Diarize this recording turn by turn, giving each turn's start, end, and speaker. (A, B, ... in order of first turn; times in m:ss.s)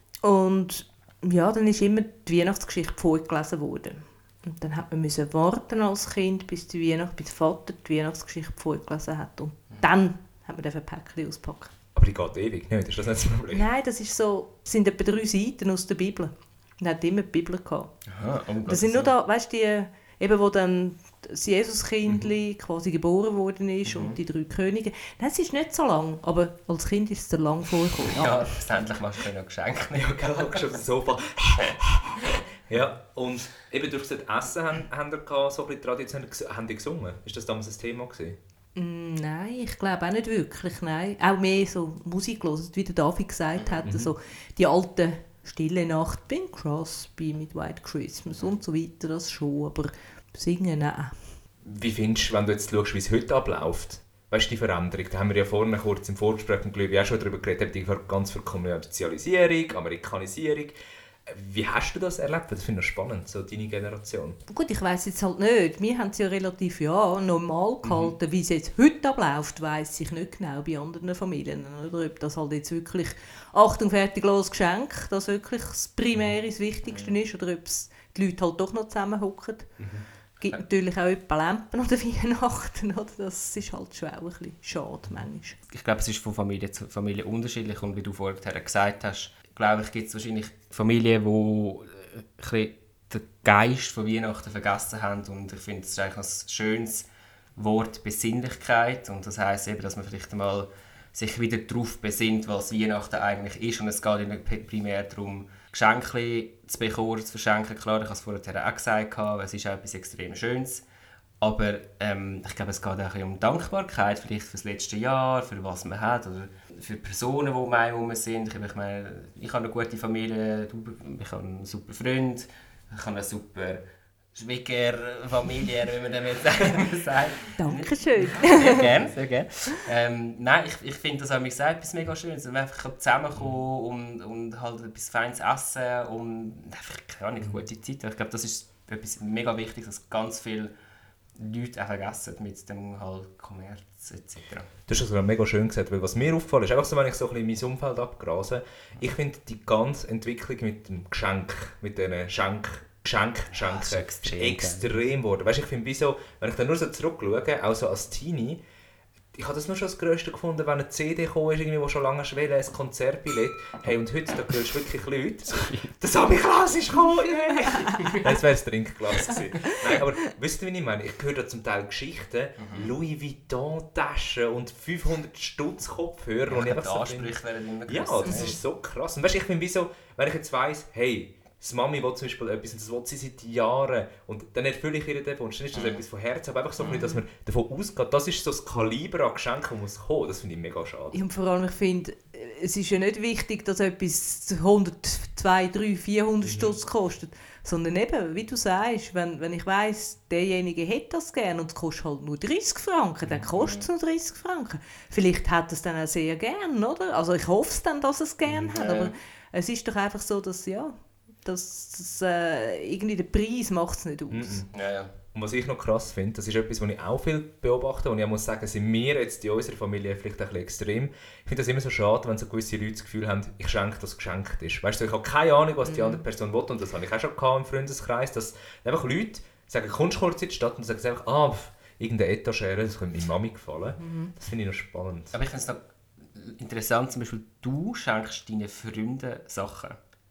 0:00.2-0:11.7 A
0:11.9-0:13.7 B
0:13.5-0:17.9 A
0:18.1-0:19.1 C
0:18.6-0:28.5 A
0:23.9-0:24.2 C
0:28.0-0:30.8 C
0:29.9-0:38.4 B
0:38.8-0:51.3 A
0:43.6-0:43.9 C
0:43.8-0:44.1 B
0:51.6-1:00.7 B
1:01.3-1:04.4 B
1:04.5-1:19.8 A
1:07.8-1:08.1 B
1:16.8-1:17.1 C
1:19.8-1:20.1 B
1:20.4-1:25.6 A
1:25.7-1:50.8 C
1:51.4-2:03.8 C
2:04.3-2:20.7 C
2:07.6-2:08.8 A
2:08.3-2:08.9 B
2:21.4-2:24.7 C
2:24.9-2:38.6 B
2:33.5-2:35.0 C
2:39.3-2:57.3 B
2:45.6-2:45.9 C
2:47.8-2:48.4 C
2:52.6-2:52.9 C
2:56.5-2:58.6 C
2:57.9-3:11.2 B
2:58.2-2:58.6 A
3:05.7-3:06.0 C
3:06.8-3:07.2 C
3:11.1-3:34.6 A
3:16.4-3:16.8 B
3:23.6-3:23.8 C
3:28.5-3:28.7 B
3:28.7-3:29.1 C
3:34.3-3:34.7 B
3:34.7-3:35.1 C
3:35.3-3:55.4 B
3:45.8-3:46.2 A
3:54.0-3:54.3 A
3:55.3-4:00.0 C